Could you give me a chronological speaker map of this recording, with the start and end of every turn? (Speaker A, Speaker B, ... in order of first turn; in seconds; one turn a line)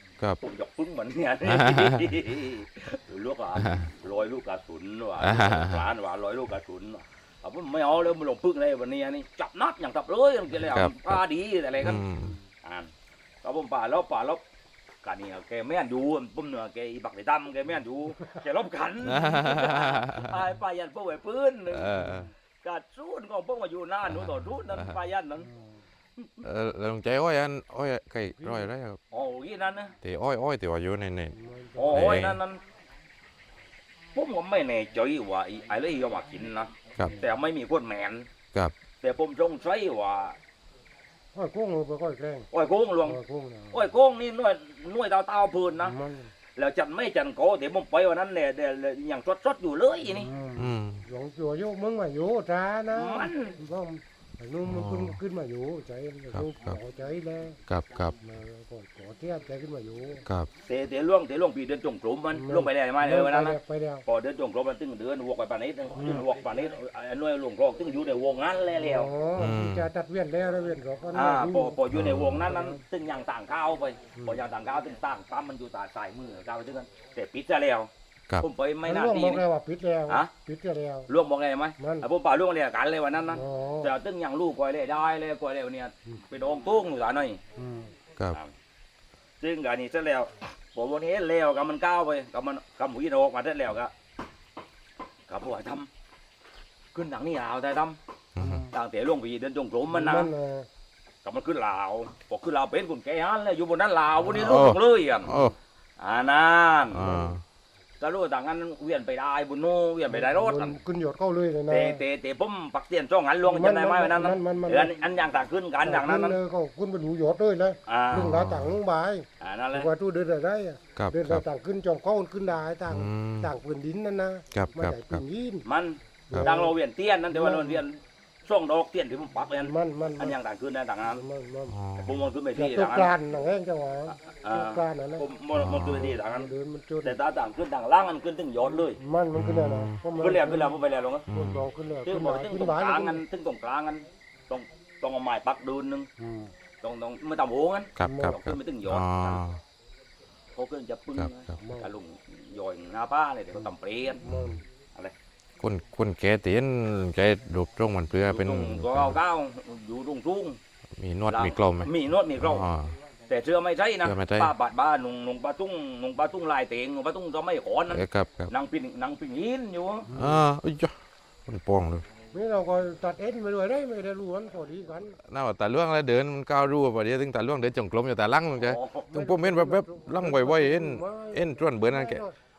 Speaker A: 0.4-12.0
Speaker B: 1.5-2.1
Speaker B: 3.6-3.9
Speaker B: 5.2-5.9
Speaker B: 10.6-11.2
Speaker B: 11.8-12.4
Speaker A: 12.6-12.9
Speaker A: 13.4-14.4
Speaker A: 15.0-25.5
Speaker B: 19.0-20.4
Speaker B: 21.7-22.3
Speaker B: 24.1-25.0
Speaker B: 26.4-29.0
Speaker C: 28.4-28.7
Speaker A: 29.1-30.0
Speaker B: 30.0-31.4
Speaker C: 31.3-32.1
Speaker A: 31.8-32.6
Speaker B: 31.9-32.4
Speaker A: 34.1-38.3
Speaker A: 39.0-40.4
Speaker C: 41.3-42.5
Speaker A: 42.5-43.2
Speaker C: 43.1-43.9
Speaker A: 43.7-46.0
Speaker C: 45.8-46.3
Speaker A: 46.6-50.3
Speaker C: 50.1-57.6
Speaker B: 50.5-51.0
Speaker A: 53.0-53.6
Speaker B: 54.6-55.2
Speaker B: 56.3-56.8
Speaker B: 57.7-58.1
Speaker C: 58.2-60.2
Speaker A: 60.6-69.1
Speaker C: 62.3-64.0
Speaker C: 66.0-66.3
Speaker C: 68.8-71.8
Speaker B: 69.4-69.9
Speaker A: 71.1-79.4
Speaker B: 71.9-72.5
Speaker C: 72.3-72.8
Speaker C: 78.8-81.1
Speaker A: 81.1-87.4
Speaker C: 81.8-82.1
Speaker C: 83.3-83.9
Speaker C: 87.6-87.9
Speaker A: 89.4-93.9
Speaker A: 95.3-95.9
Speaker A: 96.9-98.0
Speaker B: 98.4-98.7
Speaker C: 98.4-98.7
Speaker A: 98.7-100.3
Speaker C: 99.9-100.7
Speaker A: 101.2-105.3
Speaker B: 104.2-105.5
Speaker C: 105.3-105.5
Speaker A: 106.0-107.2
Speaker B: 106.9-107.4
Speaker C: 107.0-107.3
Speaker A: 108.0-110.8
Speaker C: 110.1-112.0
Speaker A: 111.7-116.4
Speaker C: 113.5-114.9
Speaker C: 115.8-125.7
Speaker A: 117.9-118.3
Speaker B: 118.1-118.8
Speaker A: 119.4-119.9
Speaker B: 121.0-121.4
Speaker B: 122.9-123.5
Speaker B: 124.5-125.2
Speaker A: 125.7-131.2
Speaker C: 126.3-126.7
Speaker C: 127.3-127.8
Speaker C: 129.6-130.4
Speaker C: 131.1-131.8
Speaker B: 131.7-132.2
Speaker A: 132.0-133.1
Speaker C: 132.6-135.3
Speaker A: 134.2-136.5
Speaker B: 135.5-136.1
Speaker C: 135.8-137.2
Speaker A: 137.0-139.0
Speaker C: 138.7-140.8
Speaker B: 139.3-140.0
Speaker A: 140.2-141.3
Speaker B: 141.3-141.7
Speaker C: 141.3-143.2
Speaker A: 142.1-146.1
Speaker C: 146.2-146.5
Speaker A: 146.8-149.4
Speaker B: 148.0-149.6
Speaker C: 148.0-148.4
Speaker A: 150.6-154.2
Speaker C: 151.6-151.9
Speaker C: 154.2-154.7
Speaker B: 154.2-154.6
Speaker B: 155.6-159.2
Speaker A: 158.3-160.6
Speaker B: 161.0-162.9
Speaker A: 161.3-162.7
Speaker A: 163.3-170.1
Speaker B: 164.0-164.5
Speaker B: 167.9-168.5
Speaker C: 170.1-170.4
Speaker B: 170.1-170.9
Speaker B: 171.5-172.1
Speaker C: 172.3-175.2
Speaker B: 175.2-182.3
Speaker A: 178.6-179.1
Speaker C: 179.1-182.3